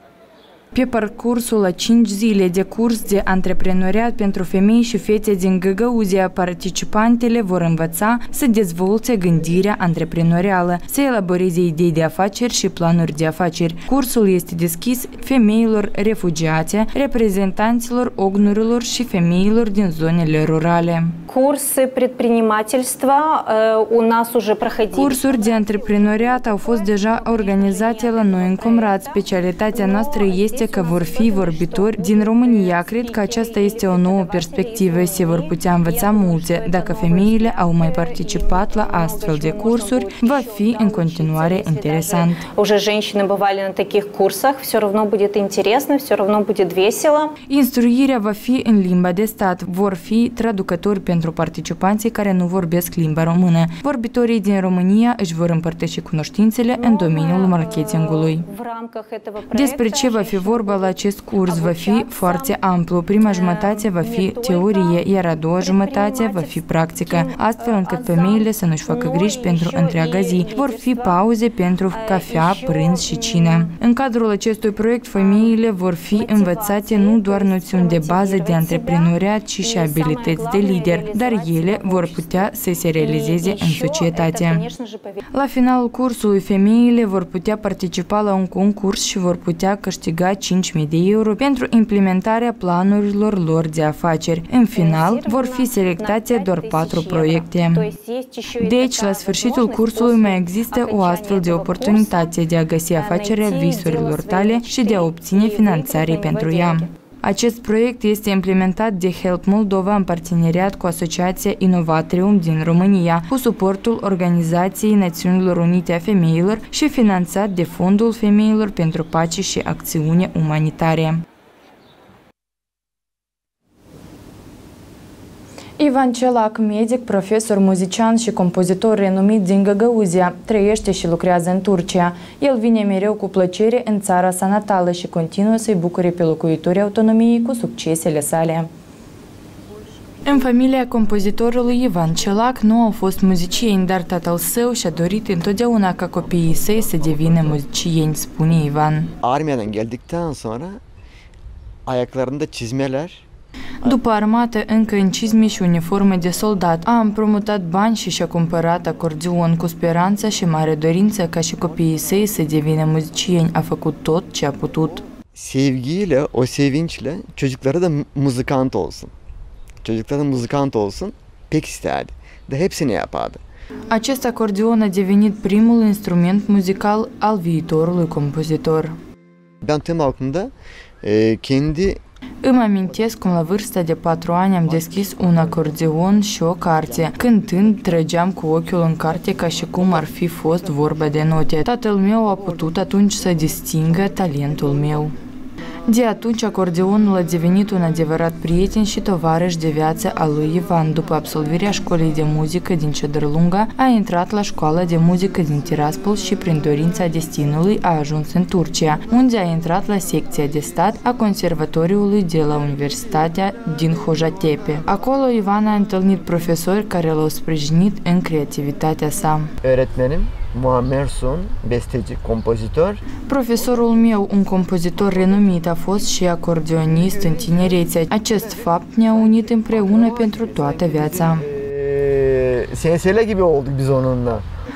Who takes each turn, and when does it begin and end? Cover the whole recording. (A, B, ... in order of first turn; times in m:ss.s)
0:00.7-0:21.2 A
0:21.3-0:47.3 B
0:24.9-0:42.4 A
0:47.5-0:58.5 A
0:56.8-1:02.6 B
0:59.5-1:24.7 A
1:03.2-1:05.0 B
1:05.6-1:11.2 B
1:11.9-1:13.7 B
1:15.1-1:25.2 B
1:25.3-1:37.9 A
1:34.7-1:42.3 B
1:38.6-2:01.2 A
1:43.0-1:46.9 B
2:05.8-2:18.7 A
2:20.2-2:29.1 A
2:29.2-2:30.8 C
2:31.9-2:33.2 C
2:33.8-2:45.0 A
2:45.3-2:49.1 C
2:49.8-2:53.4 C
2:53.9-2:58.9 A
2:59.6-3:02.0 C
3:02.4-3:15.1 A
3:15.9-3:39.5 A
3:39.6-3:43.0 C
3:43.3-3:51.4 A
3:49.7-3:54.4 C